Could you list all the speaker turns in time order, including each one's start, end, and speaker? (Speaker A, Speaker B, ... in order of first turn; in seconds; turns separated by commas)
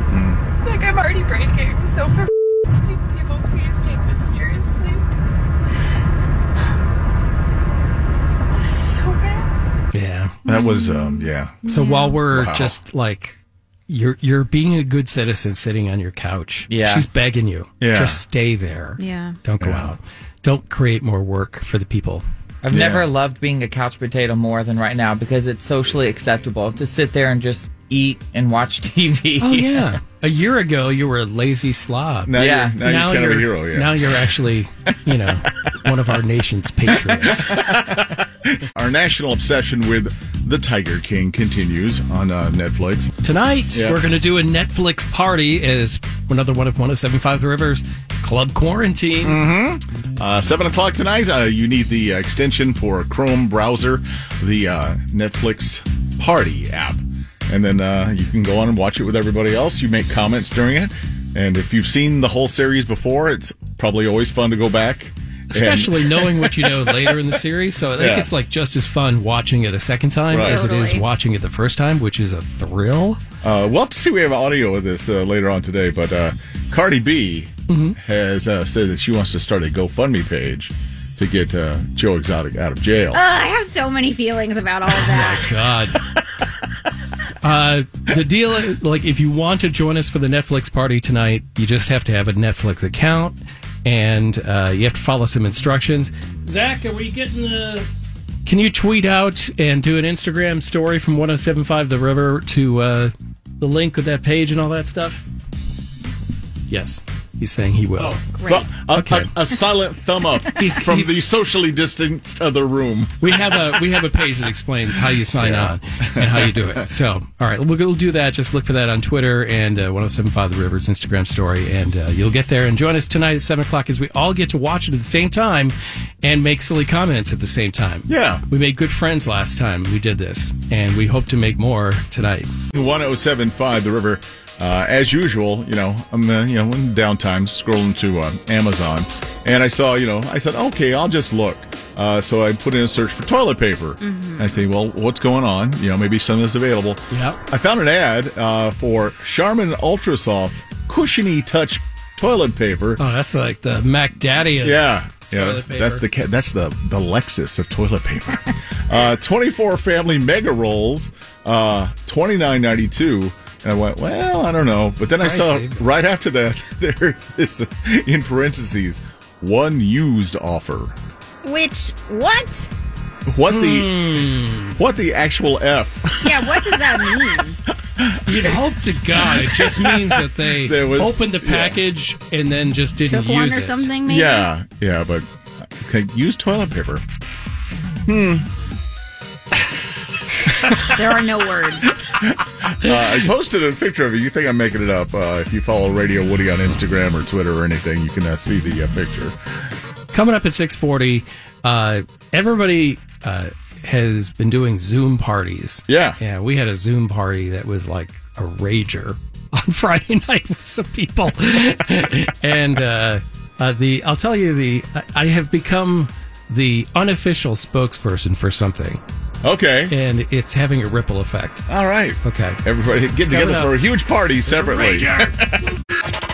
Speaker A: 0.1-0.4, Speaker B: 0.6-5.0, Speaker B: 8.6-9.5, Speaker C: 9.9-10.4, Speaker A: 10.4-11.6, Speaker D: 10.4-12.2, Speaker C: 11.7-22.2, Speaker A: 12.3-12.8, Speaker E: 16.7-17.1, Speaker A: 17.8-18.2, Speaker D: 19.0-19.4, Speaker A: 19.6-19.9, Speaker E: 22.6-29.9, Speaker A: 22.7-23.1, Speaker C: 29.4-37.7, Speaker A: 32.2-34.3, Speaker E: 32.4-32.7, Speaker A: 36.9-43.1, Speaker C: 43.2-49.4, Speaker A: 43.7-44.0, Speaker A: 49.2-67.4, Speaker C: 65.5-73.2, Speaker A: 68.0-68.3, Speaker A: 70.3-70.7, Speaker D: 70.3-71.0, Speaker A: 73.4-83.2, Speaker C: 77.7-78.0, Speaker D: 83.1-85.5, Speaker C: 85.0-86.0, Speaker C: 87.4-97.9, Speaker C: 98.4-105.2, Speaker C: 106.7-108.2, Speaker A: 108.0-113.8, Speaker D: 108.3-108.8, Speaker C: 108.9-109.3, Speaker C: 110.5-111.2, Speaker C: 113.2-132.5, Speaker A: 115.4-116.8, Speaker A: 128.1-128.4, Speaker A: 132.7-153.0, Speaker D: 144.0-144.6, Speaker C: 147.1-147.4, Speaker C: 153.0-156.0, Speaker A: 154.6-170.9, Speaker C: 165.2-165.8, Speaker D: 171.4-172.7, Speaker A: 173.2-174.1, Speaker C: 173.5-174.8, Speaker A: 174.8-177.4, Speaker D: 176.2-177.6, Speaker A: 177.9-181.8, Speaker C: 178.2-183.9, Speaker D: 183.1-184.5, Speaker A: 184.1-187.0, Speaker A: 188.1-188.5, Speaker D: 190.8-192.0, Speaker A: 192.1-199.3, Speaker C: 200.1-219.0, Speaker A: 205.9-206.2, Speaker A: 219.4-219.9, Speaker C: 219.9-221.6, Speaker A: 221.7-225.6, Speaker C: 222.2-222.6, Speaker C: 223.2-223.7, Speaker C: 224.4-225.3